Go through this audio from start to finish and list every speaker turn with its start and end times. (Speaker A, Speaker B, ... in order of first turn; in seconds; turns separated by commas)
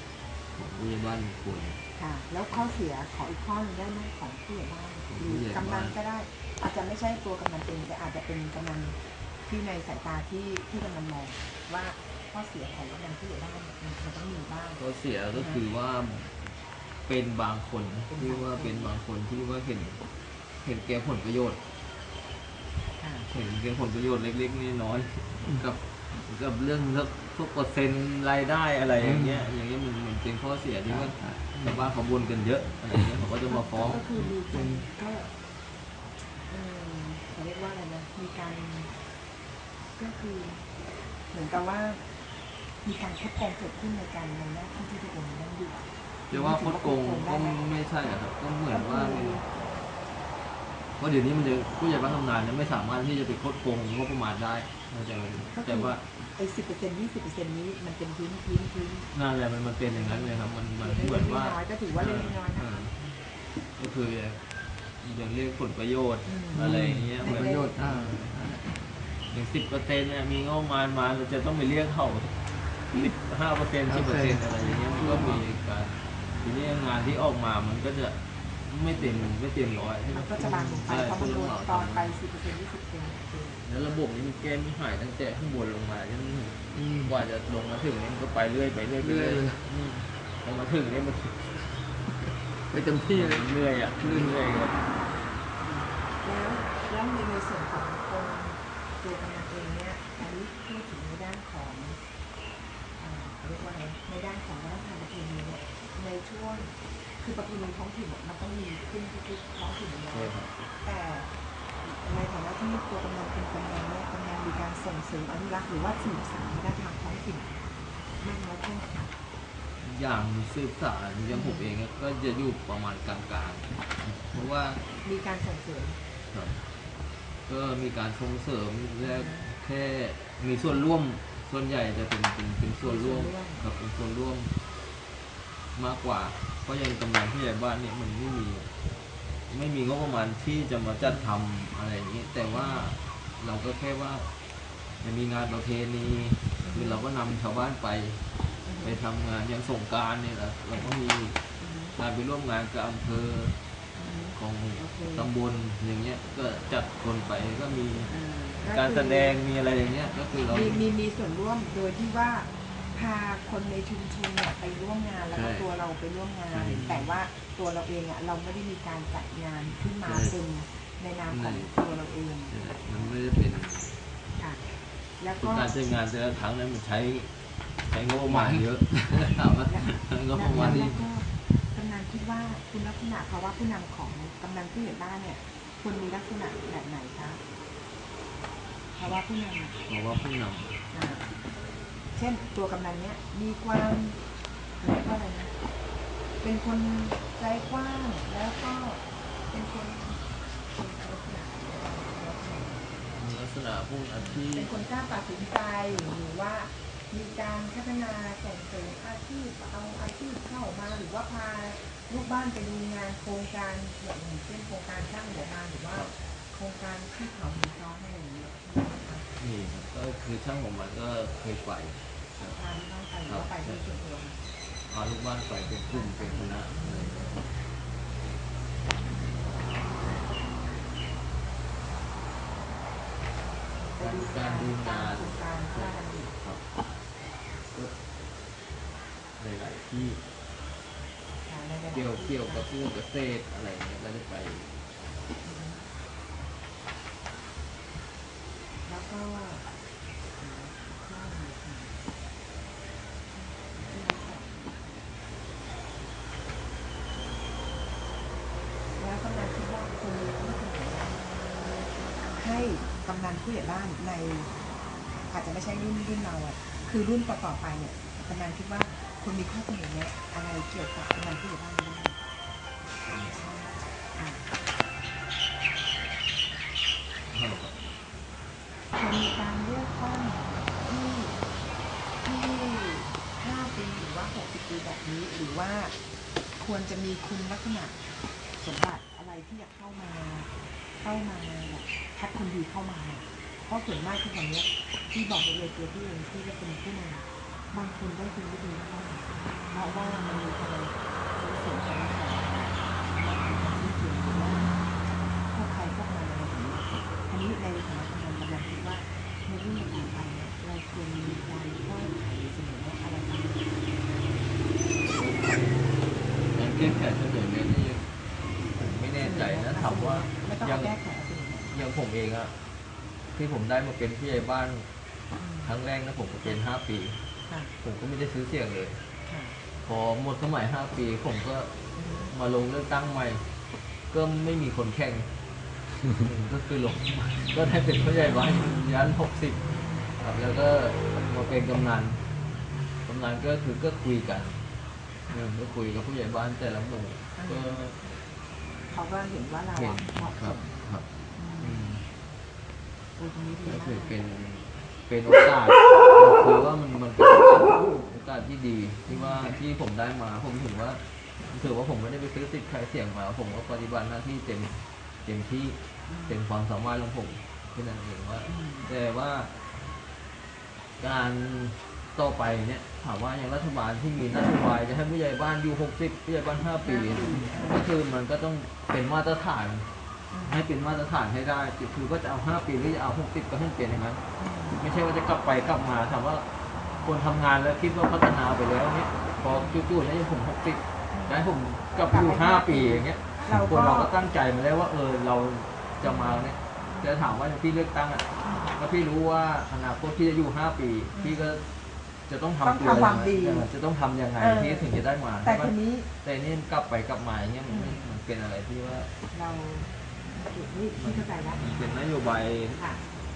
Speaker A: 0.5-1.8, Speaker B: 1.9-14.8, Speaker A: 5.1-5.9, Speaker A: 14.8-16.6, Speaker B: 15.3-15.6, Speaker A: 17.1-20.0, Speaker B: 18.1-18.9, Speaker A: 20.6-21.6, Speaker B: 23.0-23.3, Speaker A: 23.3-34.0, Speaker C: 29.0-29.5, Speaker C: 30.9-31.8, Speaker B: 33.5-35.3, Speaker C: 34.4-34.9, Speaker B: 36.3-38.9, Speaker B: 40.0-40.6, Speaker B: 41.3-42.0, Speaker B: 42.8-47.6, Speaker A: 46.3-49.4, Speaker B: 48.7-49.5, Speaker A: 51.0-56.0, Speaker B: 55.5-59.1, Speaker A: 59.1-63.0, Speaker B: 59.9-62.7, Speaker A: 63.8-64.4, Speaker A: 65.0-68.3, Speaker B: 66.2-66.7, Speaker C: 66.5-68.7, Speaker B: 67.2-67.8, Speaker A: 69.3-72.4, Speaker A: 72.9-82.2, Speaker C: 73.9-75.4, Speaker B: 74.7-75.1, Speaker B: 80.1-83.6, Speaker C: 80.4-80.8, Speaker A: 83.6-89.9, Speaker C: 86.7-87.1, Speaker C: 89.0-90.0, Speaker A: 90.4-91.8, Speaker C: 92.7-93.5, Speaker A: 92.9-94.8, Speaker C: 94.0-94.4, Speaker B: 94.7-102.0, Speaker B: 103.0-111.3, Speaker A: 110.1-110.5, Speaker B: 111.8-117.5, Speaker B: 118.2-119.0, Speaker A: 119.8-124.9, Speaker B: 121.3-121.8, Speaker B: 125.0-126.0, Speaker A: 126.3-126.6, Speaker A: 127.5-134.5, Speaker B: 129.0-129.5, Speaker B: 132.8-133.6, Speaker A: 135.7-138.7, Speaker A: 139.5-144.3, Speaker B: 142.5-142.9, Speaker A: 145.0-148.2, Speaker B: 146.6-147.0, Speaker B: 148.6-149.0, Speaker A: 148.8-151.4, Speaker B: 151.6-151.9, Speaker A: 151.9-153.6, Speaker B: 153.9-155.3, Speaker A: 154.3-160.8, Speaker B: 158.1-159.4, Speaker B: 160.4-173.1, Speaker A: 165.3-165.7, Speaker A: 166.5-167.1, Speaker A: 170.0-170.4, Speaker A: 171.3-171.7, Speaker A: 172.5-174.0, Speaker B: 175.2-175.8, Speaker A: 175.4-177.3, Speaker A: 177.9-181.1, Speaker C: 178.3-178.6, Speaker B: 179.6-187.4, Speaker B: 188.9-189.8, Speaker A: 189.8-190.8, Speaker B: 190.9-191.3, Speaker B: 192.1-194.2, Speaker B: 194.8-195.5, Speaker B: 196.4-203.0, Speaker A: 203.1-204.7, Speaker B: 204.2-219.3, Speaker A: 219.4-222.0, Speaker B: 222.4-224.4, Speaker A: 223.3-223.8, Speaker A: 224.9-227.2, Speaker B: 225.9-227.4, Speaker B: 233.8-236.3, Speaker A: 234.0-236.6, Speaker A: 239.4-240.2, Speaker B: 241.4-242.7, Speaker A: 241.9-244.8, Speaker B: 245.4-245.9, Speaker B: 248.8-249.6, Speaker B: 250.4-252.0, Speaker B: 253.3-254.9, Speaker B: 258.9-261.3, Speaker B: 262.3-264.5, Speaker B: 265.3-272.2, Speaker A: 273.1-273.4, Speaker B: 273.3-274.4, Speaker A: 277.3-277.7, Speaker B: 278.9-281.4, Speaker B: 282.2-285.9, Speaker B: 286.6-288.0, Speaker B: 288.6-290.5, Speaker B: 291.0-304.7, Speaker B: 305.5-313.7, Speaker A: 315.0-315.9, Speaker A: 316.5-318.1, Speaker A: 318.7-321.0, Speaker B: 319.2-321.7, Speaker A: 321.7-322.5, Speaker A: 323.3-324.9, Speaker B: 325.4-325.7, Speaker A: 325.6-327.2, Speaker B: 327.5-327.7, Speaker A: 327.8-329.0, Speaker B: 329.3-329.6, Speaker A: 329.8-331.8, Speaker B: 331.9-332.3, Speaker A: 332.3-333.4, Speaker A: 334.1-335.3, Speaker A: 336.1-339.6, Speaker A: 340.2-342.2, Speaker A: 343.0-344.6, Speaker A: 345.3-348.0, Speaker B: 347.4-347.8, Speaker B: 348.9-350.8, Speaker A: 349.7-351.1, Speaker B: 351.4-352.0, Speaker A: 351.6-352.0, Speaker B: 353.2-354.1, Speaker A: 353.6-369.5, Speaker B: 359.1-359.6, Speaker B: 366.1-366.4, Speaker B: 368.4-368.9, Speaker A: 371.0-379.9, Speaker B: 376.8-377.8, Speaker B: 380.3-380.6, Speaker A: 380.4-384.2, Speaker B: 384.4-384.8, Speaker A: 384.7-386.5, Speaker B: 386.7-387.1, Speaker A: 387.0-401.6, Speaker B: 389.4-389.8, Speaker B: 391.1-394.1, Speaker B: 396.0-397.3, Speaker B: 398.4-398.7, Speaker B: 401.1-401.6, Speaker A: 402.3-409.1, Speaker B: 402.6-403.7, Speaker B: 404.4-406.1, Speaker B: 407.6-408.1, Speaker B: 409.3-411.6, Speaker A: 411.0-412.8, Speaker B: 412.8-413.0